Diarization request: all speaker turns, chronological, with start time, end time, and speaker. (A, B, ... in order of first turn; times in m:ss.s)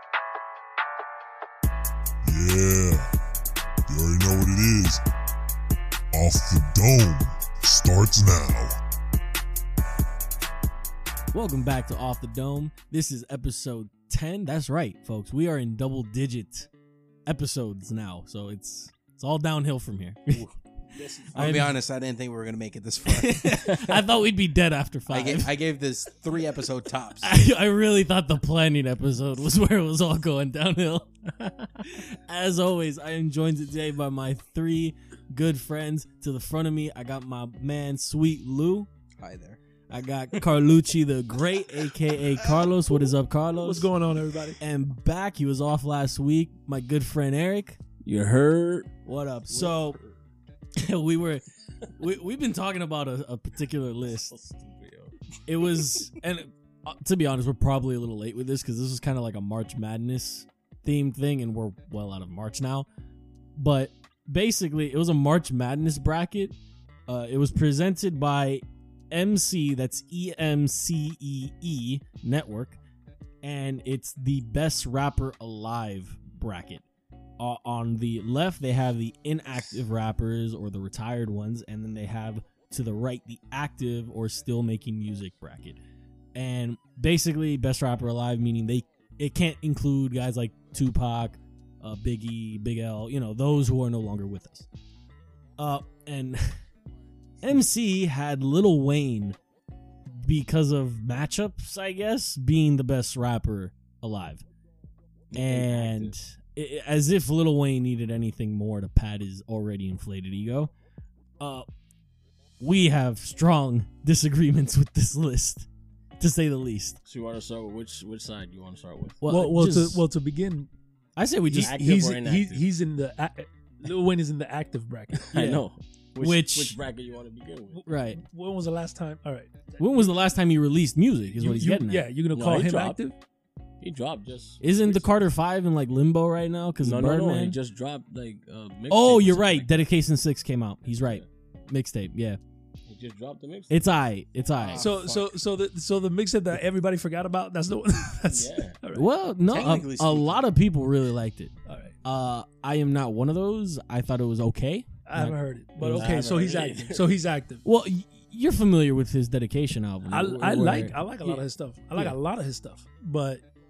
0:02.2-0:03.1 A
0:03.9-0:05.0 A
0:06.1-0:08.7 A
0:11.3-0:16.7 B
0:17.2-0:20.5 B
0:20.9-0:21.6 C
0:21.2-0:21.7 B
0:21.3-0:23.8 D
0:23.0-0:25.5 B
0:25.1-0:27.3 D
0:27.2-0:38.9 B
0:39.2-0:39.6 D
0:39.9-0:43.9 B
0:43.5-0:44.6 C
0:44.6-0:47.8 B
0:48.0-0:48.9 E
0:49.0-0:50.0 B
0:49.5-0:50.0 E
0:50.8-0:51.4 B
0:52.0-0:54.3 B
0:54.3-0:55.1 E
0:55.4-1:02.9 B
1:03.6-1:06.6 B
1:07.1-1:12.8 B
1:13.4-1:16.8 B
1:17.4-1:25.8 B
1:26.3-1:34.7 B
1:35.6-1:36.6 B
1:37.4-1:39.4 B
1:40.1-1:44.4 B
1:45.3-1:46.1 E
1:45.3-1:50.7 B
1:51.4-1:51.7 B
1:52.6-1:55.7 B
1:56.2-1:57.0 B
1:57.0-1:59.2 E
1:59.2-2:00.0 B
1:59.2-2:00.7 C
2:01.2-2:01.8 B
2:01.5-2:05.6 C
2:01.6-2:02.6 E
2:05.2-2:07.8 E
2:06.2-2:06.8 B
2:07.7-2:10.1 C
2:07.9-2:08.2 B
2:09.8-2:12.0 B
2:11.4-2:13.1 C
2:12.3-2:13.0 E
2:13.8-2:15.1 E
2:14.6-2:17.6 B
2:16.8-2:19.8 E
2:18.9-2:22.4 B
2:21.0-2:21.2 E
2:22.9-2:23.9 E
2:23.7-2:24.9 B
2:24.6-2:25.2 E
2:24.8-2:29.1 C
2:28.3-2:28.8 E
2:28.9-2:36.1 B
2:29.5-2:30.4 D
2:31.7-2:31.9 C
2:35.1-2:37.6 C
2:35.8-2:37.1 E
2:37.6-2:41.4 B
2:40.1-2:43.4 C